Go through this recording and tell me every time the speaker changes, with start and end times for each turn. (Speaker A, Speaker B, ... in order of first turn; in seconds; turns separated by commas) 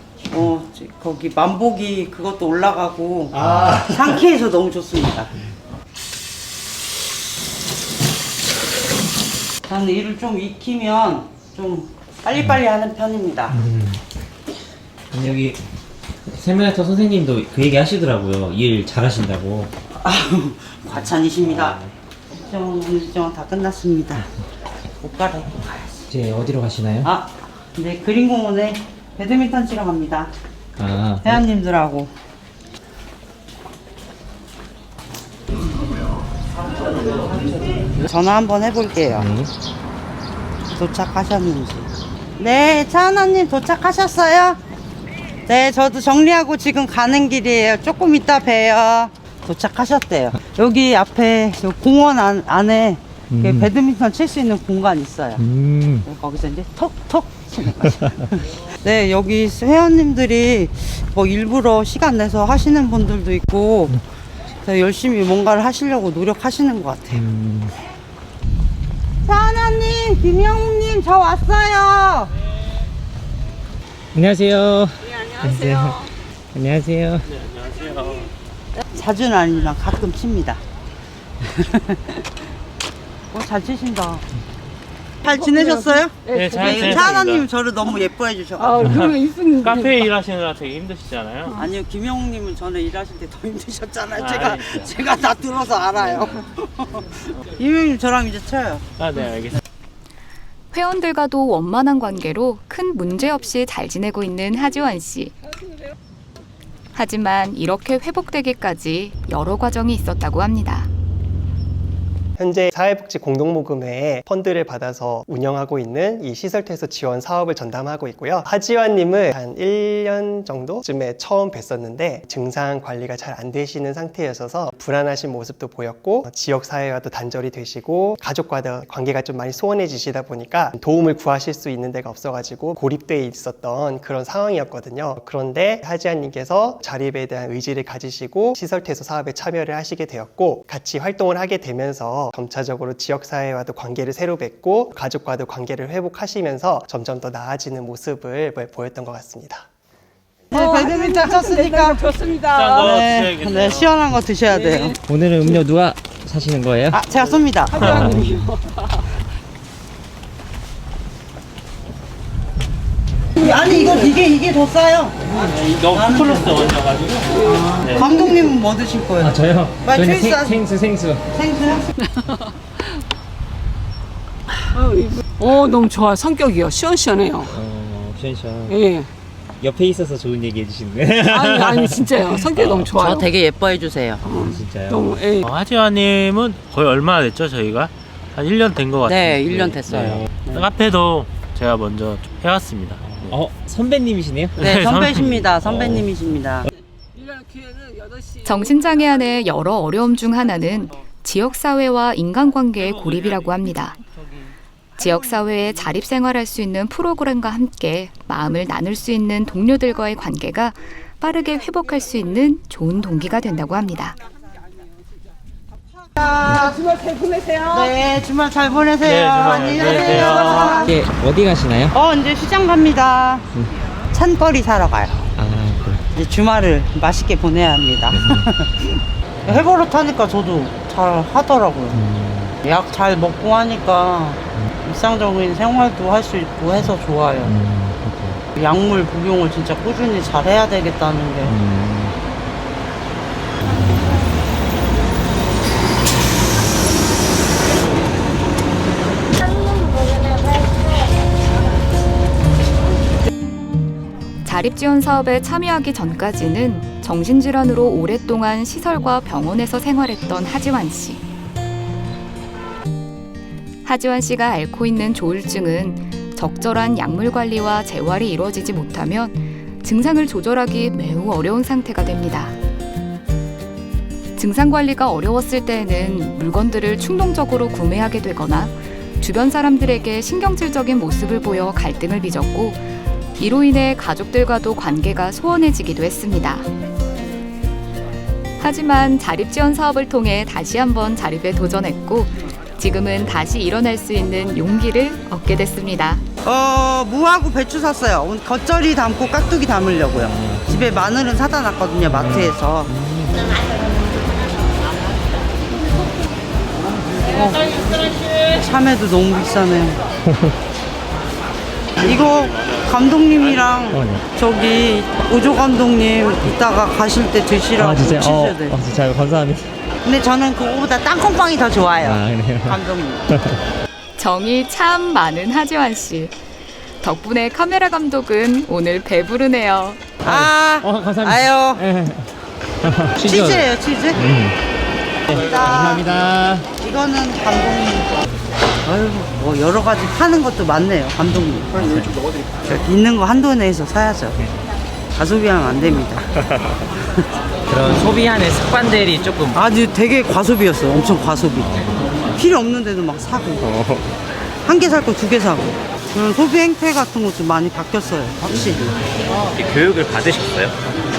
Speaker A: 0.2-5.3, Speaker B: 3.4-3.8, Speaker A: 9.7-13.6, Speaker B: 13.5-14.0, Speaker B: 15.1-15.6, Speaker B: 16.3-19.7, Speaker A: 20.0-21.8, Speaker B: 21.4-21.9, Speaker A: 22.4-24.2, Speaker A: 25.0-26.1, Speaker B: 26.1-27.1, Speaker A: 27.0-30.3, Speaker B: 30.8-31.4, Speaker A: 31.2-32.1, Speaker A: 36.7-39.3, Speaker B: 39.1-39.5, Speaker A: 40.7-44.6, Speaker A: 45.5-55.4, Speaker B: 53.3-53.7, Speaker B: 55.4-56.0, Speaker A: 56.0-64.0, Speaker A: 64.6-67.2, Speaker B: 67.1-67.8, Speaker A: 69.2-72.3, Speaker B: 74.2-77.3, Speaker C: 77.3-78.3, Speaker A: 78.9-80.6, Speaker A: 81.4-82.2, Speaker A: 83.3-84.2, Speaker A: 85.2-89.1, Speaker C: 86.3-87.5, Speaker D: 88.6-89.6, Speaker C: 88.8-91.6, Speaker A: 91.5-98.9, Speaker C: 94.1-94.9, Speaker C: 99.0-99.6, Speaker E: 100.7-105.3, Speaker E: 107.0-110.9, Speaker F: 112.4-149.7, Speaker A: 150.5-152.1, Speaker D: 152.0-152.5, Speaker C: 152.4-154.1, Speaker A: 152.7-155.0, Speaker B: 155.1-157.0, Speaker A: 156.9-158.2, Speaker B: 157.8-158.4, Speaker C: 157.8-158.1, Speaker D: 158.1-158.5, Speaker A: 163.4-170.6, Speaker C: 165.3-168.1, Speaker B: 169.2-171.3, Speaker A: 171.3-171.9, Speaker D: 174.8-177.5, Speaker B: 177.5-178.8, Speaker D: 178.7-179.1, Speaker B: 179.6-182.9, Speaker D: 181.3-183.2, Speaker A: 182.9-184.2, Speaker B: 184.2-185.2, Speaker D: 184.2-185.4, Speaker C: 185.4-193.4, Speaker A: 189.1-190.7, Speaker B: 193.0-194.6, Speaker A: 194.6-196.7, Speaker C: 194.6-195.4, Speaker B: 195.6-196.0, Speaker E: 198.4-204.0, Speaker E: 205.0-214.2, Speaker A: 216.2-216.8, Speaker A: 217.6-221.0, Speaker C: 219.0-220.9, Speaker B: 220.8-221.9, Speaker A: 221.9-223.4, Speaker A: 224.1-225.3, Speaker B: 225.4-226.0, Speaker A: 226.2-232.0, Speaker B: 228.1-228.5, Speaker B: 231.9-232.6, Speaker A: 232.6-237.5, Speaker B: 237.4-238.4, Speaker A: 238.6-241.5, Speaker B: 241.4-242.2, Speaker B: 243.6-244.3, Speaker E: 254.4-261.2, Speaker E: 263.9-272.6, Speaker E: 274.4-286.7, Speaker E: 288.6-296.2, Speaker A: 296.4-302.9, Speaker B: 300.3-300.8, Speaker B: 302.1-303.5, Speaker A: 307.2-310.0, Speaker B: 310.3-310.6, Speaker A: 312.0-318.8, Speaker B: 313.9-314.2, Speaker B: 317.8-319.7, Speaker A: 320.1-323.3, Speaker B: 322.0-323.6, Speaker E: 324.2-326.3, Speaker E: 327.0-330.1, Speaker A: 330.2-331.8, Speaker B: 330.2-332.3, Speaker B: 332.8-334.6, Speaker A: 333.2-334.2, Speaker B: 335.3-336.7, Speaker A: 335.3-336.2, Speaker A: 336.8-338.2, Speaker A: 338.8-344.4, Speaker B: 341.3-342.2, Speaker A: 345.1-346.2, Speaker B: 346.4-346.8, Speaker B: 347.7-349.6, Speaker A: 349.5-353.7, Speaker B: 351.6-352.3, Speaker B: 353.6-354.1, Speaker A: 354.6-359.5, Speaker B: 359.6-360.7